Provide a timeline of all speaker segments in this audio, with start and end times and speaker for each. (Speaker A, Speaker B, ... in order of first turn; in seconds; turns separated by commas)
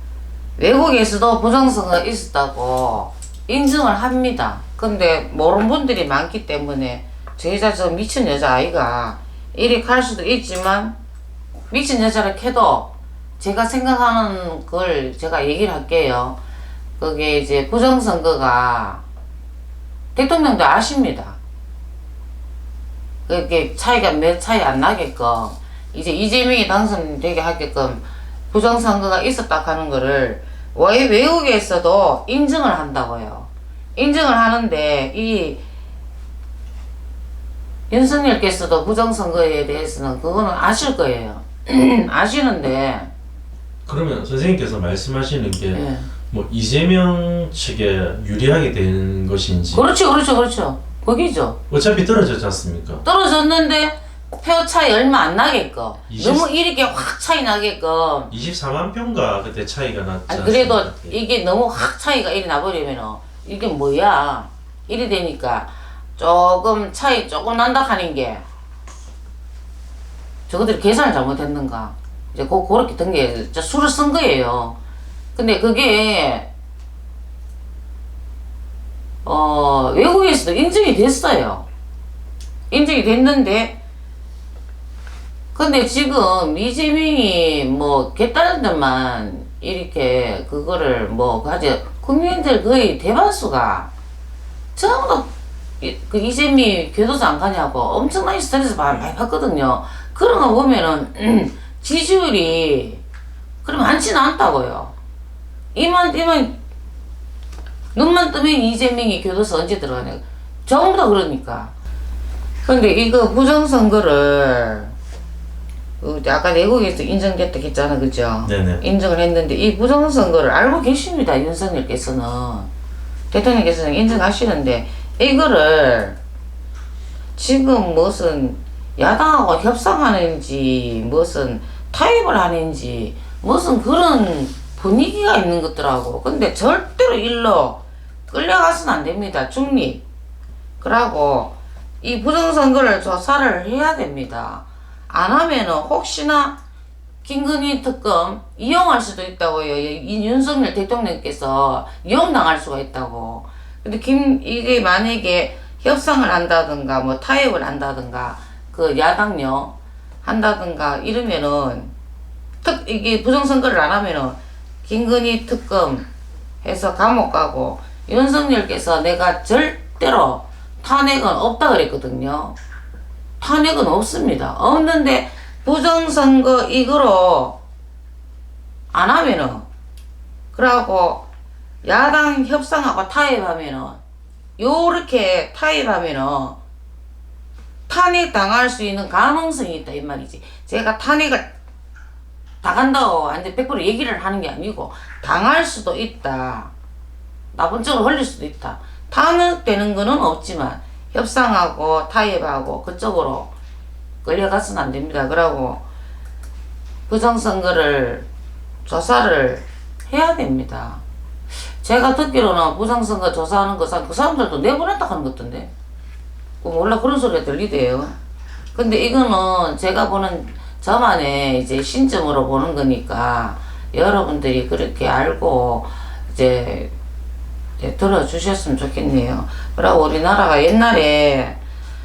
Speaker A: 0.6-11.0, Speaker A: 11.7-16.4, Speaker A: 17.0-19.0, Speaker A: 20.1-21.4, Speaker A: 23.3-35.6, Speaker A: 37.9-43.1, Speaker B: 43.9-49.9, Speaker A: 45.7-46.1, Speaker A: 49.7-51.6, Speaker B: 51.7-53.0, Speaker A: 53.0-58.3, Speaker B: 56.1-56.5, Speaker B: 58.3-61.2, Speaker A: 60.3-68.5, Speaker A: 70.5-74.8, Speaker A: 75.4-76.5, Speaker A: 79.2-81.7, Speaker A: 82.7-83.8, Speaker A: 85.5-93.9, Speaker A: 94.8-95.3, Speaker A: 95.8-103.0, Speaker A: 103.6-104.9, Speaker A: 105.7-106.6, Speaker A: 107.9-111.7, Speaker A: 112.7-114.9, Speaker A: 116.0-122.7, Speaker B: 118.5-118.8, Speaker A: 123.3-126.2, Speaker A: 127.4-140.0, Speaker A: 140.8-146.6, Speaker A: 147.2-161.9, Speaker A: 162.6-166.1, Speaker A: 166.6-172.6, Speaker A: 173.4-177.6, Speaker A: 178.9-179.7, Speaker A: 180.5-181.3, Speaker A: 181.8-184.0, Speaker A: 184.6-186.6, Speaker A: 187.9-191.5, Speaker A: 192.6-196.7, Speaker A: 197.5-203.5, Speaker A: 204.2-205.8, Speaker A: 207.1-208.3, Speaker A: 208.9-211.0, Speaker A: 211.8-215.7, Speaker A: 216.6-218.2, Speaker A: 218.8-226.9, Speaker A: 227.8-231.6